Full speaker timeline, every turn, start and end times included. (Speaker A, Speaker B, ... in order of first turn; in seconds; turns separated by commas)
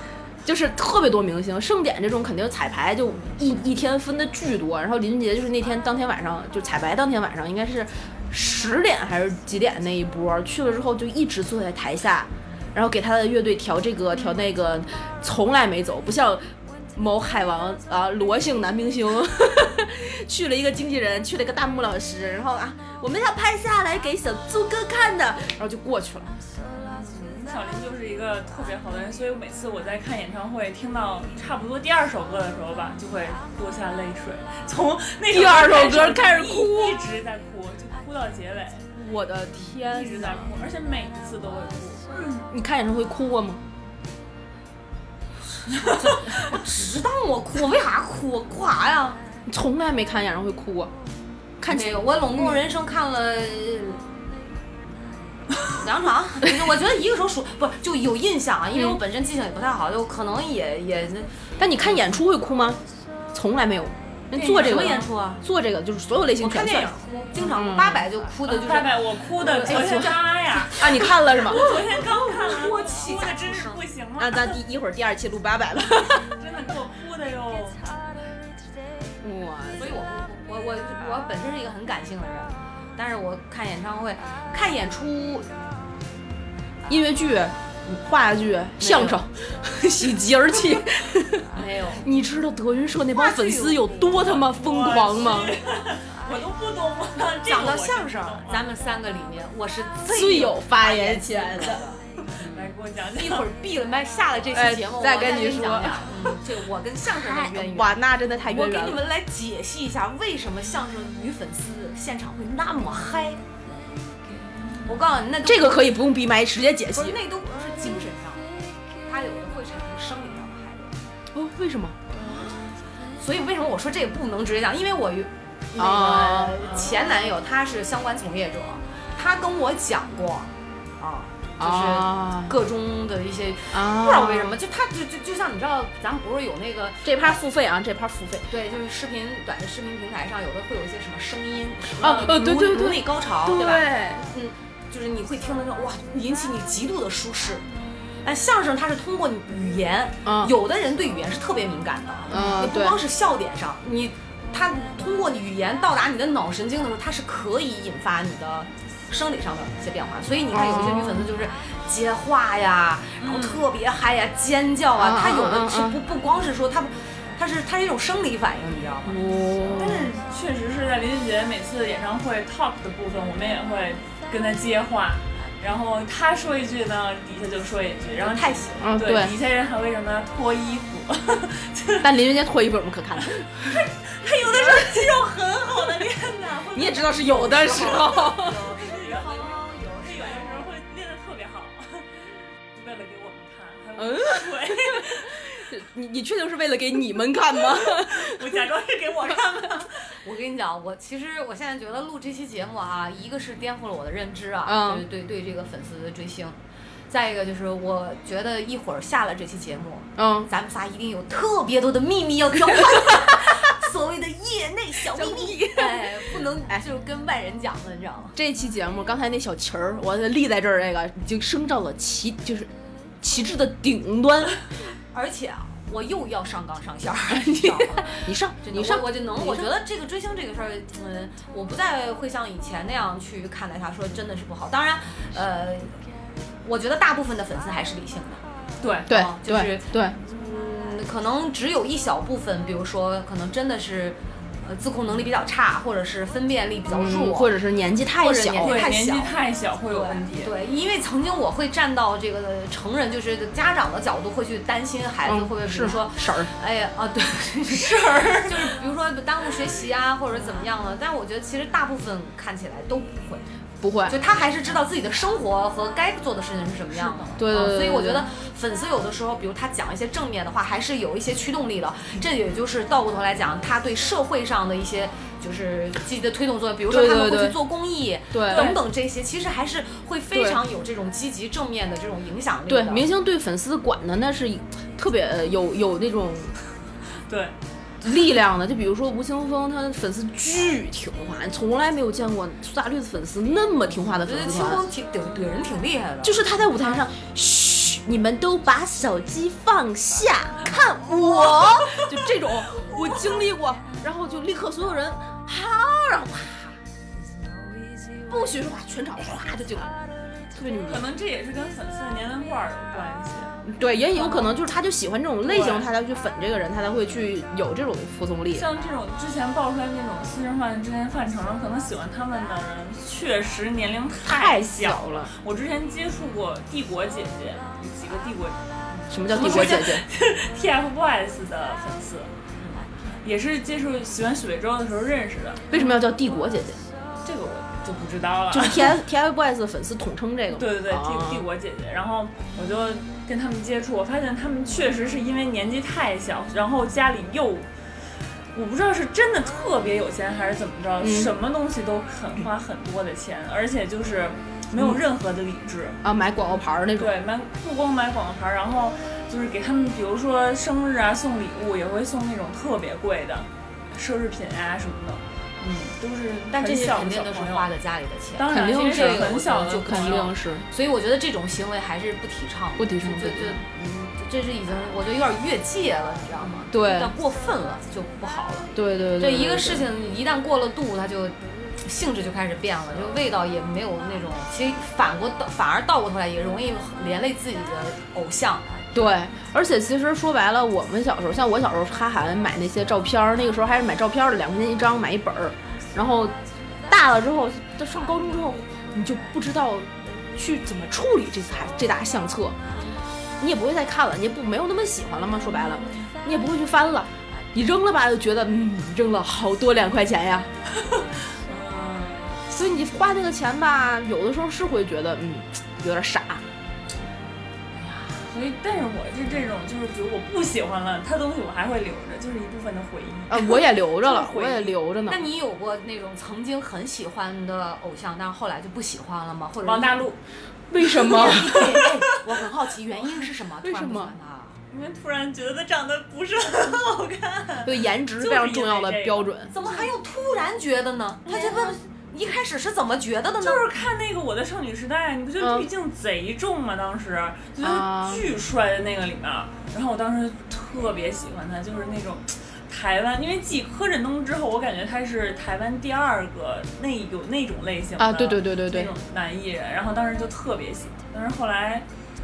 Speaker A: 0.5-26.3, Speaker B: 26.7-38.9, Speaker A: 35.3-37.0, Speaker A: 39.0-40.5, Speaker B: 39.6-42.4, Speaker A: 42.4-43.6, Speaker C: 45.8-49.2, Speaker A: 49.5-50.9, Speaker A: 51.6-52.6, Speaker C: 51.7-54.0, Speaker C: 55.7-62.1, Speaker A: 61.6-62.8, Speaker A: 63.3-68.1, Speaker C: 64.3-65.4, Speaker B: 64.5-65.0, Speaker C: 66.4-69.0, Speaker B: 68.5-74.6, Speaker A: 69.4-71.7, Speaker C: 69.7-70.0, Speaker C: 71.3-73.8, Speaker A: 74.2-76.3, Speaker B: 76.1-77.9, Speaker A: 79.2-80.0, Speaker C: 79.8-85.5, Speaker A: 86.9-95.6, Speaker C: 88.8-89.2, Speaker C: 91.5-92.1, Speaker C: 93.1-94.1, Speaker B: 94.1-98.7, Speaker C: 97.5-102.6, Speaker A: 100.1-101.8, Speaker B: 102.4-103.5, Speaker C: 103.1-113.4, Speaker A: 104.5-106.4, Speaker A: 107.0-109.0, Speaker C: 114.8-115.9, Speaker A: 115.4-117.2, Speaker C: 117.0-118.5, Speaker C: 119.0-121.0, Speaker A: 121.3-122.0, Speaker C: 122.2-122.6, Speaker C: 123.2-137.4, Speaker A: 125.8-126.6, Speaker B: 126.7-127.0, Speaker A: 131.6-132.5, Speaker A: 133.7-134.5, Speaker A: 137.0-138.5, Speaker C: 138.5-147.6, Speaker A: 142.0-144.3, Speaker C: 148.2-169.2, Speaker A: 150.2-150.5, Speaker A: 152.3-153.0, Speaker A: 160.5-161.3, Speaker B: 163.2-163.6, Speaker A: 165.0-166.0, Speaker A: 169.1-170.1, Speaker B: 169.7-182.1, Speaker C: 178.2-178.9, Speaker A: 178.8-179.3, Speaker A: 182.0-183.8, Speaker B: 183.2-192.1, Speaker A: 184.4-184.9, Speaker A: 186.7-188.6, Speaker C: 187.2-190.7, Speaker B: 192.7-195.4, Speaker A: 194.0-198.6, Speaker B: 197.6-199.9, Speaker C: 200.1-206.6, Speaker A: 204.6-205.0, Speaker C: 207.1-218.4, Speaker A: 210.2-210.5, Speaker A: 215.1-216.1, Speaker A: 218.3-224.6, Speaker C: 225.1-235.9, Speaker A: 227.3-229.7, Speaker C: 236.6-238.4, Speaker B: 238.8-239.1, Speaker A: 239.1-240.1, Speaker C: 239.1-247.5, Speaker A: 246.9-248.9, Speaker C: 248.2-249.3, Speaker B: 248.6-250.5, Speaker C: 249.9-263.4, Speaker A: 255.3-256.5, Speaker B: 257.7-258.7, Speaker A: 263.8-264.2, Speaker C: 264.1-283.1, Speaker A: 267.4-268.3, Speaker A: 276.9-277.6, Speaker A: 278.3-278.8, Speaker B: 278.5-278.8, Speaker A: 280.3-280.6, Speaker A: 282.7-286.5, Speaker B: 287.3-287.6, Speaker A: 288.0-294.9, Speaker C: 294.1-296.4, Speaker A: 296.2-306.8, Speaker A: 308.3-309.9, Speaker A: 310.5-311.1, Speaker B: 310.9-313.6, Speaker A: 313.6-318.7, Speaker B: 314.2-314.6, Speaker B: 315.4-315.9, Speaker B: 318.5-328.6, Speaker A: 324.2-325.3, Speaker A: 329.1-330.1, Speaker B: 329.3-332.3, Speaker C: 329.3-329.7, Speaker B: 333.2-335.8, Speaker A: 335.7-336.8, Speaker B: 337.2-339.0, Speaker A: 338.5-341.5, Speaker B: 340.5-347.7, Speaker B: 348.5-356.0, Speaker A: 351.0-351.3, Speaker A: 354.8-355.0, Speaker A: 356.0-357.1, Speaker B: 356.9-367.7, Speaker C: 366.5-388.7, Speaker B: 368.4-370.3, Speaker A: 368.5-370.6, Speaker A: 372.8-373.6, Speaker A: 376.7-377.1, Speaker A: 378.7-379.9, Speaker A: 388.9-396.4, Speaker A: 396.9-402.6, Speaker A: 403.4-410.5, Speaker B: 410.8-412.4, Speaker A: 412.5-416.4, Speaker B: 418.2-424.7, Speaker A: 423.3-425.2, Speaker C: 425.1-430.1, Speaker B: 429.6-430.2, Speaker A: 430.7-431.9, Speaker C: 430.8-434.6, Speaker B: 431.1-431.9, Speaker A: 433.6-434.1, Speaker B: 434.7-439.9, Speaker A: 437.6-439.5, Speaker C: 439.5-443.6, Speaker B: 441.3-441.7, Speaker B: 443.4-461.9, Speaker A: 445.4-445.7, Speaker A: 447.6-448.2, Speaker A: 458.0-458.9